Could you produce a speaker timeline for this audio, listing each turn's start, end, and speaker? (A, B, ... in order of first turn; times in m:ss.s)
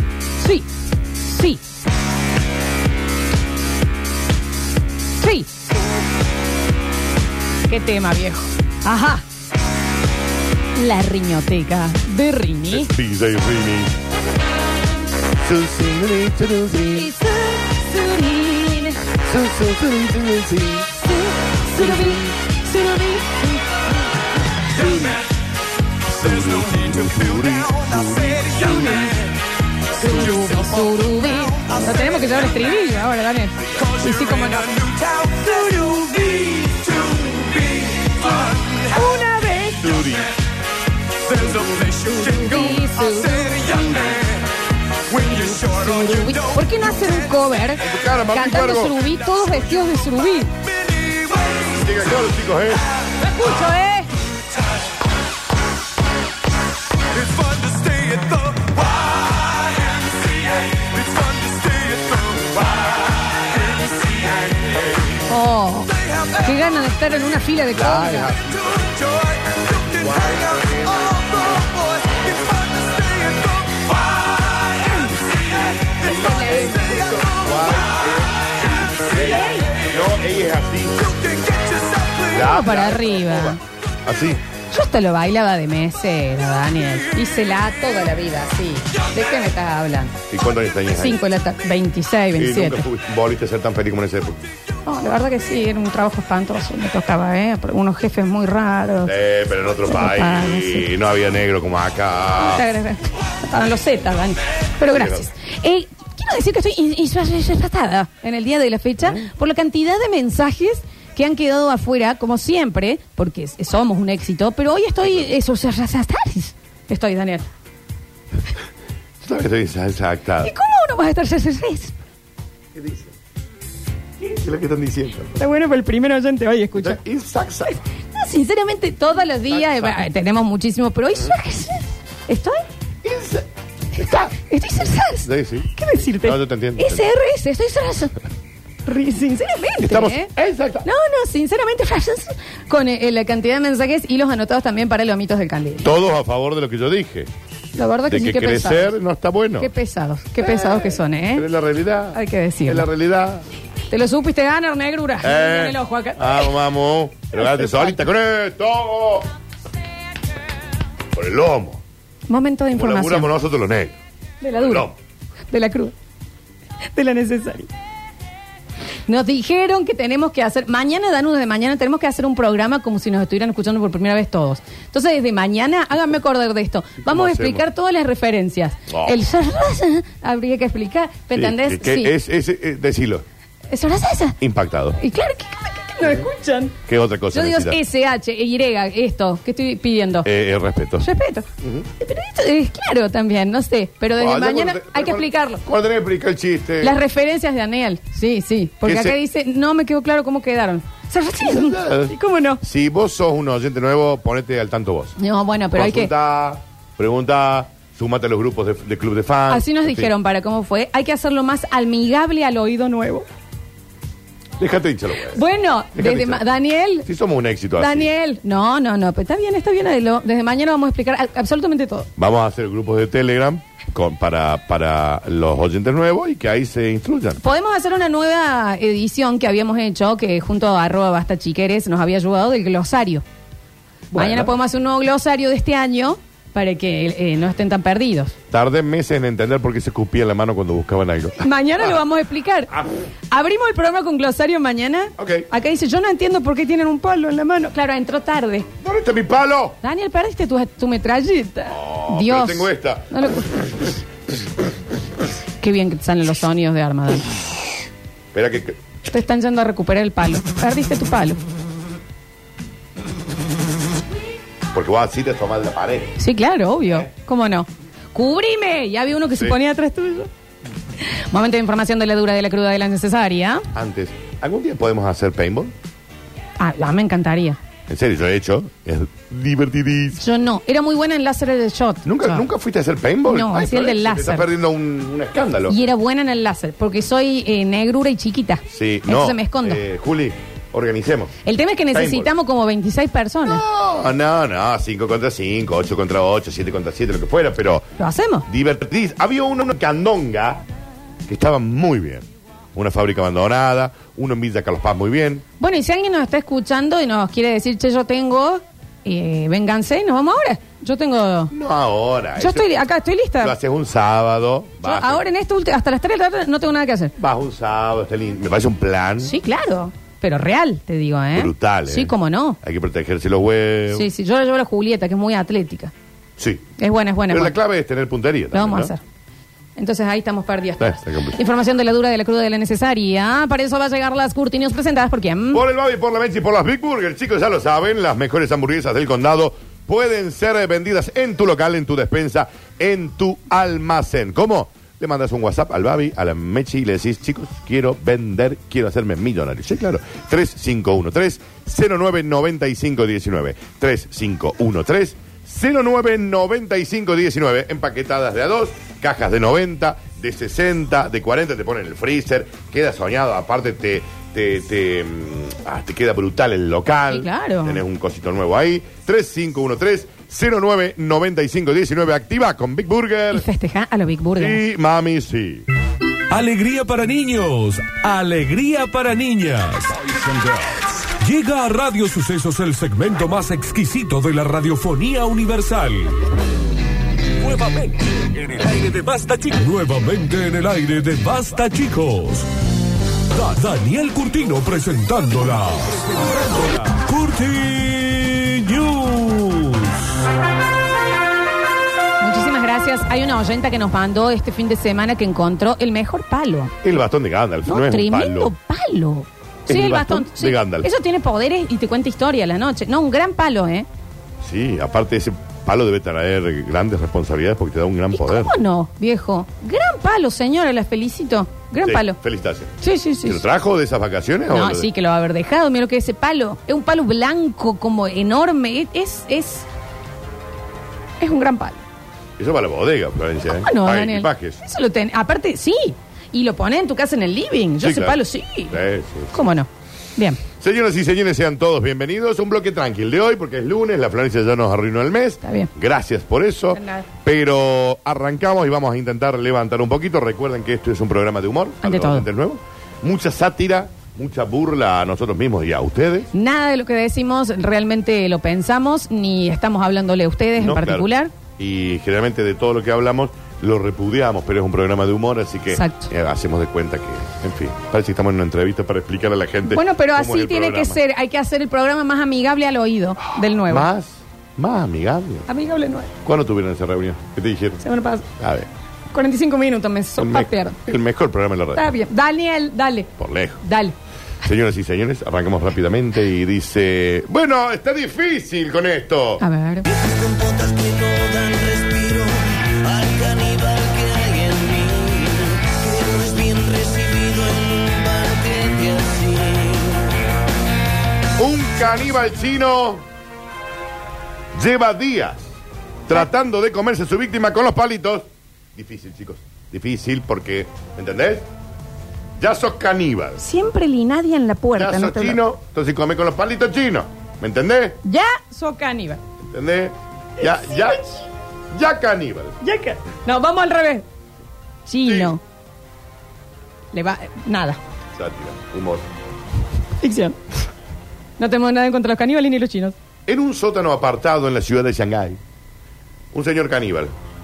0:00.4-0:00.7 A
0:01.2-0:01.6 A
0:05.2-0:05.8 A
0:07.7-0:09.2 A
0:10.8-0:12.9 A
0:12.7-0:13.9 B
0:15.4-0:17.1 B
0:16.9-0:19.0 A
0:19.2-0:20.9 B
0:21.0-0:23.4 A
0:21.8-0:22.4 B
0:24.8-0:25.2 B
0:26.1-0:28.8 B
0:26.2-0:29.3 C
0:28.6-0:29.2 A
0:30.0-0:36.3 A
0:33.8-0:35.3 C
0:36.1-0:38.8 C
0:38.2-0:39.9 A
0:39.7-0:40.3 B
0:41.3-0:44.4 C
0:41.8-0:44.2 A
0:45.1-0:46.5 C
0:45.2-0:50.5 A
0:47.8-0:49.0 B
0:50.8-0:51.7 C
0:51.8-0:52.8 B
0:53.2-0:54.1 A
0:57.1-0:58.8 C
0:59.4-1:02.8 C
1:03.4-1:04.5 C
1:05.3-1:08.3 A
1:07.7-1:09.0 B
1:09.1-1:13.8 C
1:09.9-1:11.6 B
1:14.8-1:15.2 A
1:16.0-1:19.2 B
1:16.0-1:17.3 A
1:19.0-1:19.8 A
1:19.8-1:21.3 B
1:21.4-1:22.1 C
1:22.2-1:23.6 A
1:22.2-1:24.4 B
1:24.7-1:30.2 A
1:30.3-1:31.2 B
1:30.9-1:32.8 A
1:32.4-1:34.5 B
1:34.8-1:39.1 A
1:39.0-1:42.6 B
1:39.9-1:40.9 A
1:42.4-1:57.5 A
1:44.9-1:45.3 B
1:49.0-1:49.3 B
1:55.0-1:55.3 B
1:59.2-2:00.5 B
2:00.4-2:02.0 A
2:02.7-2:03.1 B
2:04.2-2:05.4 B
2:05.4-2:07.0 A
2:06.8-2:07.8 B
2:08.1-2:12.6 A
2:09.5-2:10.0 B
2:13.0-2:14.3 B
2:14.3-2:18.2 A
2:15.2-2:15.7 B
2:16.2-2:17.0 B
2:18.8-2:20.3 A
2:19.8-2:20.9 B
2:20.8-2:25.9 A
2:25.8-2:27.3 B
2:27.7-2:28.9 A
2:28.1-2:29.7 B
2:29.6-2:31.5 A
2:30.4-2:33.4 B
2:32.1-2:32.9 A
2:33.9-2:36.5 A
2:35.2-2:39.3 B
2:37.3-2:38.0 A
2:41.1-2:41.8 B
2:42.3-2:43.3 A
2:42.7-2:44.0 B
2:44.4-2:44.9 A
2:44.6-2:45.0 B
2:45.5-2:45.9 A
2:46.9-2:47.7 A
2:49.1-3:02.1 A
2:57.0-2:57.6 B
2:58.9-2:59.2 B
3:01.3-3:03.2 B
3:03.7-3:04.4 A
3:04.4-3:05.0 B
3:05.0-3:06.8 A
3:06.0-3:06.3 B
3:06.8-3:07.8 B
3:07.3-3:10.3 A
3:10.2-3:11.1 B
3:11.0-3:11.4 A
3:11.6-3:11.9 B
3:12.0-3:15.6 A
3:14.2-3:17.0 B
3:16.8-3:22.6 A
3:18.8-3:19.2 B
3:21.4-3:25.2 B
3:25.2-3:26.1 A
3:25.7-3:30.1 B
3:29.5-3:33.2 A
3:34.6-3:35.4 B
3:35.3-3:37.1 A
3:35.9-3:36.4 B
3:37.0-3:38.1 B
3:37.8-3:42.1 A
3:42.2-3:47.4 B
3:47.4-3:53.2 A
3:54.1-3:54.5 B
3:54.1-3:58.3 A
3:58.5-4:02.0 B
4:01.4-4:02.7 A
4:03.3-4:08.7 A
4:05.2-4:05.5 B
4:08.8-4:09.8 B
4:09.8-4:13.9 A
4:11.7-4:13.9 B
4:15.6-4:17.3 A
4:18.3-4:18.8 B
4:19.1-4:21.4 A
4:24.7-4:26.2 B
4:26.2-4:30.3 A
4:29.3-4:29.6 B
4:31.0-4:33.7 A
4:33.7-4:35.7 B
4:36.6-4:37.6 A
4:37.9-4:40.2 B
4:40.2-4:42.4 A
4:42.0-4:45.8 B
4:43.3-4:44.5 A
4:45.7-4:49.8 A
4:48.7-4:51.3 B
4:51.4-4:53.6 A
4:51.9-4:52.3 B
4:53.4-4:57.9 B
4:58.0-4:58.5 A
4:58.5-5:00.6 B
5:01.2-5:05.4 B
5:05.6-5:11.5 A
5:11.5-5:12.7 B
5:12.4-5:13.6 A
5:13.4-5:15.2 B
5:14.8-5:17.2 A
5:17.2-5:19.3 B
5:19.2-5:22.6 A
5:21.3-5:24.1 B
5:23.9-5:25.9 A
5:26.4-5:26.7 B
5:26.8-5:27.5 A
5:27.3-5:28.9 B
5:28.5-5:29.0 A
5:29.8-5:35.6 A
5:30.8-5:31.4 B
5:35.5-6:13.4 B
6:07.1-6:07.8 A
6:13.3-6:14.6 A
6:14.4-6:15.6 B
6:16.3-6:26.2 D
6:27.4-6:32.5 D
6:33.3-6:40.1 D
6:42.2-6:46.8 A
6:46.8-6:48.5 B
6:47.6-6:53.9 A
6:49.7-6:50.9 B
6:54.4-6:58.6 B
6:58.1-7:02.2 A
7:01.8-7:04.9 B
7:02.8-7:03.4 A
7:04.5-7:09.7 A
7:11.2-7:11.8 A
7:12.4-7:14.6 B
7:13.5-7:18.8 A
7:17.8-7:19.3 B
7:19.3-7:20.4 A
7:20.5-7:36.3 B
7:25.4-7:25.7 A
7:26.7-7:27.0 A
7:31.8-7:32.3 A
7:36.3-7:41.3 A
7:40.6-7:51.0 B
7:45.7-7:46.1 A
7:49.6-7:53.9 A
7:53.7-7:55.5 B
7:55.5-7:56.1 A
7:56.2-7:57.8 B
7:57.8-7:58.2 A
7:58.4-7:58.7 B
7:59.1-8:00.8 A
8:00.2-8:01.9 B
8:01.8-8:03.1 A
8:03.2-8:03.6 B
8:03.6-8:03.9 A
8:04.4-8:09.4 B
8:09.4-8:09.9 A
8:09.8-8:20.2 E
8:21.4-8:23.0 B
8:24.5-8:25.5 B
8:26.1-8:31.5 B
8:32.4-8:33.4 B
8:33.4-8:35.4 A
8:34.8-8:38.0 B
8:38.0-8:39.2 A
8:39.4-8:41.0 B
8:40.7-8:41.1 A
8:41.7-8:42.6 B
8:42.6-8:44.0 A
8:44.9-8:45.4 A
8:45.0-8:45.3 B
8:46.9-8:47.8 A
8:48.1-8:49.0 B
8:50.0-8:50.4 A
8:51.4-8:52.9 A
8:53.3-8:55.4 B
8:56.3-8:57.1 B